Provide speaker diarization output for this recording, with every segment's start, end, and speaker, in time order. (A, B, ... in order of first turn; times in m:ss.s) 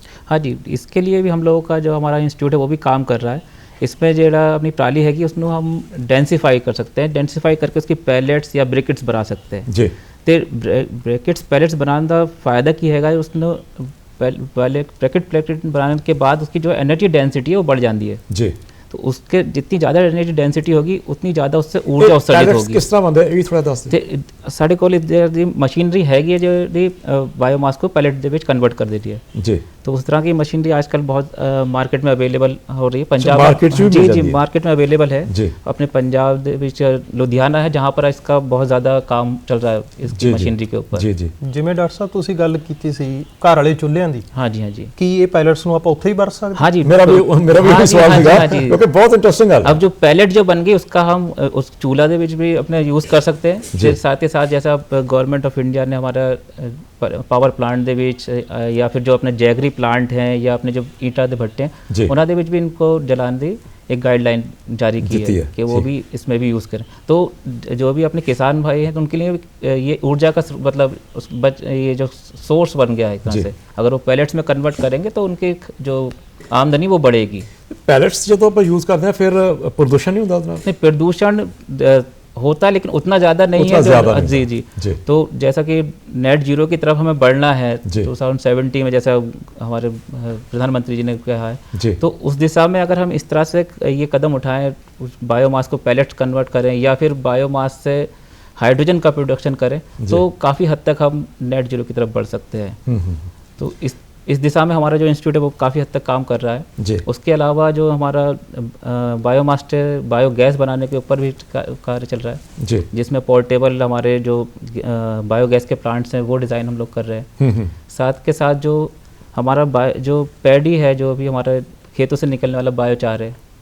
0:00.3-0:09.7 A
0:09.7-0:09.9 B
0:10.2-0:18.2 A
0:18.3-0:18.5 B
0:18.9-0:22.8 A
0:22.0-0:23.9 B
0:23.9-0:29.2 A
0:29.3-0:29.6 B
0:29.8-0:41.0 A
0:33.2-0:34.4 B
0:35.3-0:35.5 B
0:40.1-0:41.3 B
0:41.4-0:44.3 C
0:44.3-0:44.9 A
0:45.0-0:46.7 C
0:46.5-0:48.8 A
0:46.8-0:49.8 B
0:49.6-1:17.5 A
1:05.0-1:05.8 B
1:17.7-1:20.6 B
1:20.6-1:42.8 A
1:23.6-1:25.0 B
1:31.7-1:32.0 B
1:42.8-1:43.2 B
1:43.6-1:57.3 A
1:46.8-1:47.0 B
1:52.6-1:52.9 B
1:57.4-1:57.7 B
1:57.9-2:03.4 A